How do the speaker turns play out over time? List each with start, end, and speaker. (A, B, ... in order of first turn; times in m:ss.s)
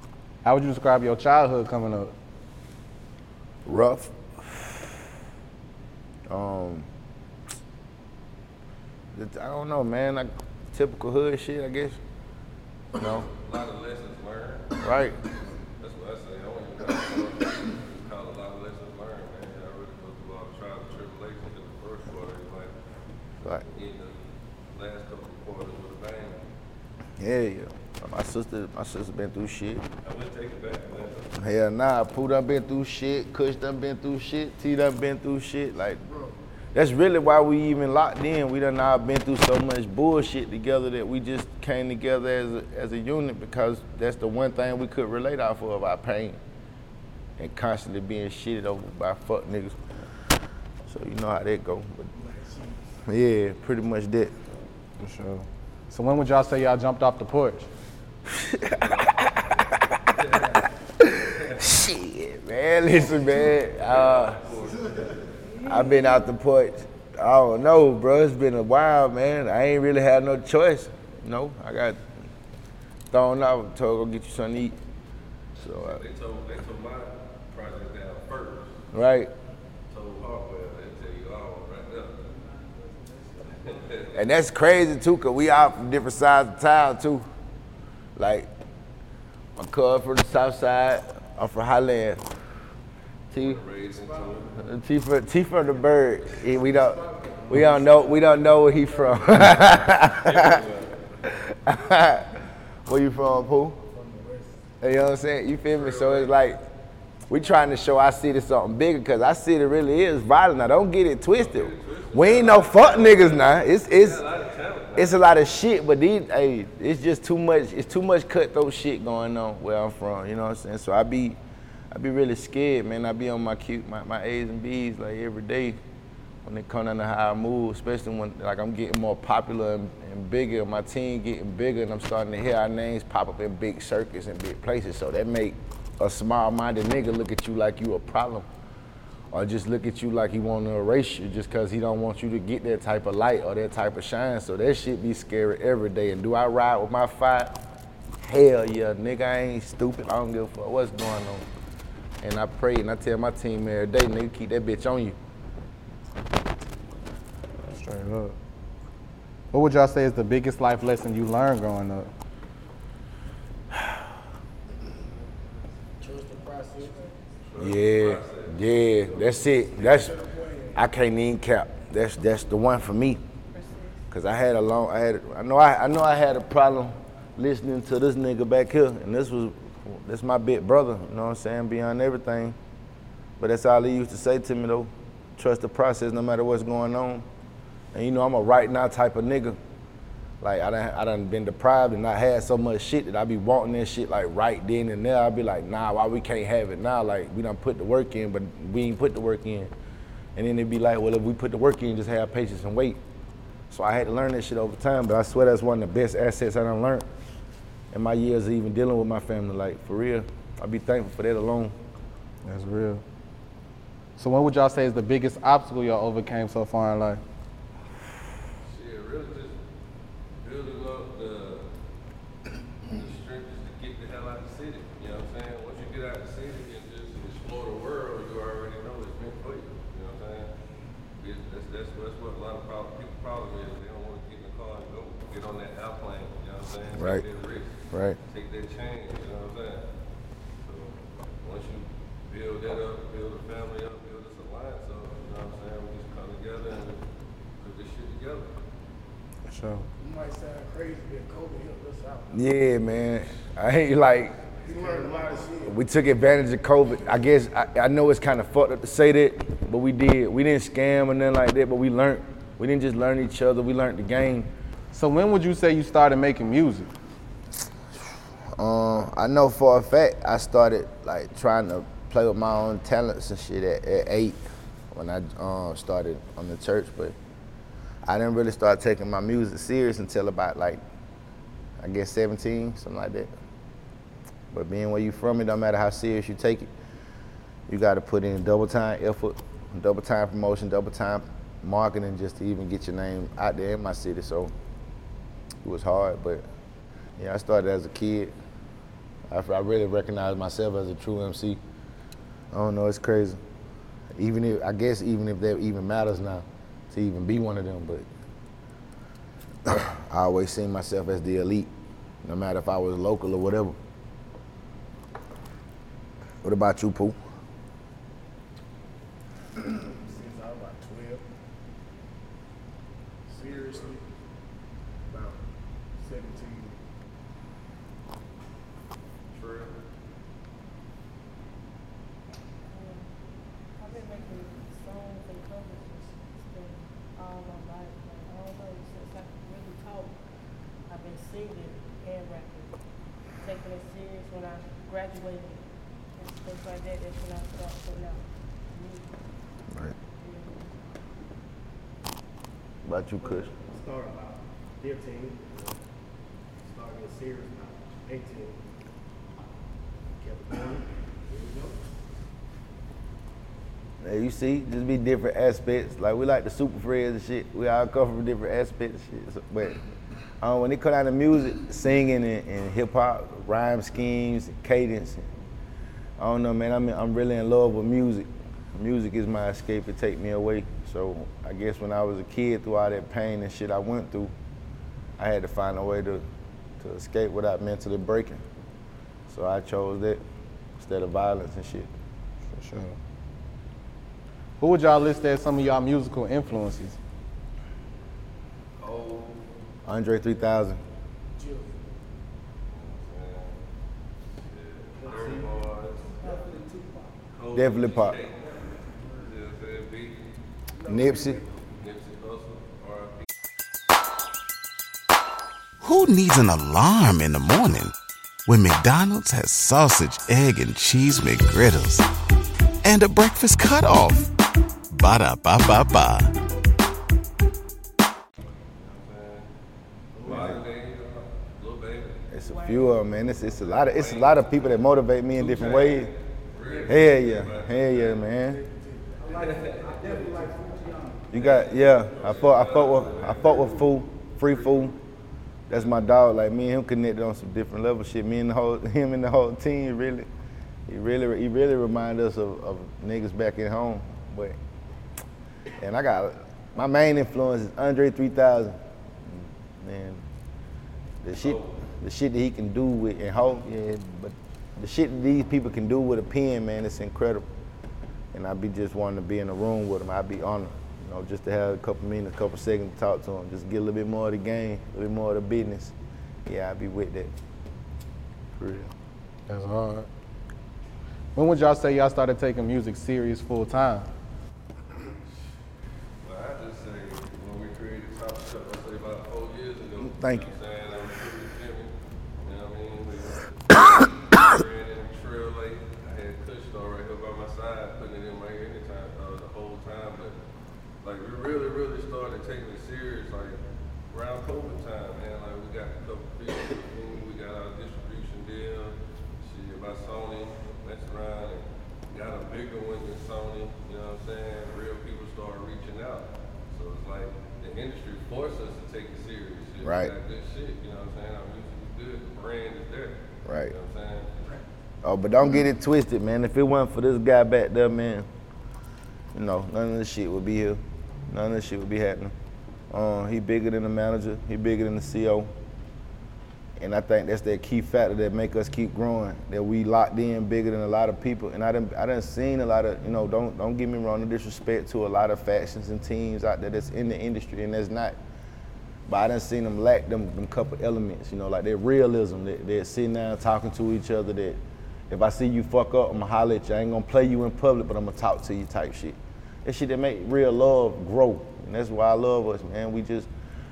0:00.4-0:02.1 A
0:03.7-0:04.8 B
0:06.3-0:06.9 B
0:09.1-0:12.0 B
0:13.0-0:13.3 B
0:13.0-0:14.8 C
0:14.8-0:15.2 B
0:15.8-0:22.7 C
0:23.6-0:24.2 C
0:24.7-0:26.4 C
0:27.2-0:29.8 B
0:30.0-0:31.3 C
0:31.4-0:36.0 B
0:36.7-0:46.4 B
0:47.4-0:49.8 B
0:50.9-0:52.1 B
0:52.1-0:52.9 D
0:53.1-0:54.3 B
0:55.0-0:57.7 A
0:58.3-0:59.3 B
0:58.6-1:01.6 C
1:01.0-1:04.4 B
1:03.3-1:05.2 C
1:05.6-1:12.0 B
1:13.1-1:14.8 B
1:15.6-1:16.0 B
1:15.8-1:18.8 C
1:18.9-1:19.3 B
1:19.9-1:22.2 C
1:22.6-1:23.7 D
1:23.4-1:24.2 C
1:24.1-1:27.3 B
1:28.2-1:28.5 B
1:29.6-1:32.2 B
1:33.3-1:34.5 C
1:33.3-1:33.6 B
1:34.6-1:40.6 B
1:36.7-1:38.2 D
1:39.4-1:41.0 C
1:41.3-1:43.8 B
1:43.8-1:44.6 D
1:44.8-1:46.6 B
1:45.7-1:46.4 C
1:47.3-1:54.2 B
1:51.4-1:55.2 C
1:55.0-2:01.4 B
2:01.9-2:05.8 B
2:06.4-2:18.5 B
2:19.3-2:27.6 B
2:28.2-2:31.5 B
2:32.2-2:35.2 B
2:37.7-2:38.4 A
2:39.5-2:42.1 A
2:46.0-2:47.1 D
2:47.5-2:49.5 C
2:47.6-2:50.2 B
2:49.7-2:50.8 D
2:50.8-2:53.2 B
2:53.5-2:54.0 E
2:54.1-3:02.6 B
3:03.4-3:07.3 B
3:07.9-3:09.6 B
3:10.4-3:19.7 B
3:20.4-3:23.0 B
3:23.7-3:27.1 B
3:27.9-3:31.8 B
3:32.4-3:33.0 A
3:34.2-3:37.2 A
3:38.6-3:39.6 C
3:40.4-3:41.6 C
3:42.9-3:50.5 C
3:51.2-3:59.8 C
3:57.0-3:57.2 B
3:57.9-3:58.2 B
4:00.6-4:07.0 C
4:07.6-4:08.5 C
4:09.5-4:09.9 A
4:10.0-4:12.4 D
4:12.3-4:14.4 B
4:14.6-4:15.8 D
4:15.6-4:24.5 B
4:24.9-4:26.9 A
4:28.6-4:37.2 B
4:38.0-4:40.8 B
4:41.8-4:43.3 B
4:44.5-4:46.7 B
4:47.7-4:54.5 B
4:55.6-4:56.5 B
4:57.2-4:58.3 B
4:59.3-5:01.6 B
5:02.5-5:03.4 B
5:04.2-5:08.1 B
5:09.7-5:11.7 B
5:12.2-5:13.8 B
5:16.4-5:17.2 B
5:19.6-5:21.2 D
5:23.3-5:24.0 D
5:25.1-5:25.4 D
5:26.0-5:26.8 D
5:29.3-5:29.7 D
5:32.7-5:33.1 E
5:33.8-5:40.2 E
5:40.9-5:42.8 E
5:43.4-5:45.6 E
5:46.2-5:49.1 E
5:50.2-5:50.7 E
5:52.8-5:53.5 B
5:53.2-5:55.7 D
5:56.6-5:58.6 D
6:00.2-6:01.8 D
6:04.0-6:09.8 B
6:10.4-6:15.3 B
6:16.2-6:24.3 B
6:25.2-6:26.2 B
6:26.8-6:28.4 B
6:29.3-6:30.2 B
6:30.8-6:31.9 B
6:32.5-6:33.0 A
6:34.6-6:37.0 A
6:38.8-6:39.4 C
6:39.9-6:40.8 B
6:41.4-6:41.9 D
6:42.7-6:43.6 C
6:44.5-6:46.1 C
6:45.0-6:45.5 D
6:46.2-6:46.5 E
6:46.2-6:47.1 D
6:47.3-6:48.5 C
6:47.5-6:48.2 B
6:48.8-6:49.2 D
6:49.2-6:50.2 C
6:50.7-6:51.6 D
6:50.9-6:51.4 B
6:51.8-6:53.3 C
6:55.8-6:58.0 F
6:58.5-7:02.1 F
7:02.8-7:04.3 F
7:04.9-7:06.3 F
7:08.8-7:09.5 C
7:10.2-7:10.6 D
7:10.2-7:12.2 C
7:10.3-7:10.6 B
7:12.3-7:16.1 B
7:12.5-7:12.8 E
7:13.5-7:14.6 C
7:15.4-7:18.2 C
7:16.9-7:18.6 B
7:18.3-7:22.5 D
7:19.3-7:20.3 C
7:21.3-7:24.9 B
7:21.3-7:23.8 C
7:23.2-7:23.7 D
7:24.5-7:24.9 C
7:25.7-7:30.3 B
7:30.9-7:34.6 B
7:35.8-7:38.8 B
7:39.8-7:40.2 B
7:41.2-7:47.5 B
7:41.4-7:41.8 C
7:48.3-7:55.9 B
7:56.5-7:57.3 B
7:58.5-7:58.9 B
7:59.5-8:00.1 A
8:01.4-8:04.1 A
8:06.2-8:11.9 C
8:10.0-8:10.5 B
8:12.4-8:20.4 C
8:21.0-8:44.4 C
8:39.8-8:40.1 B
8:43.4-8:43.7 B
8:45.0-8:48.3 B
8:49.3-8:52.3 B
8:52.9-8:55.5 B
8:56.8-9:08.2 B
9:09.1-9:23.3 B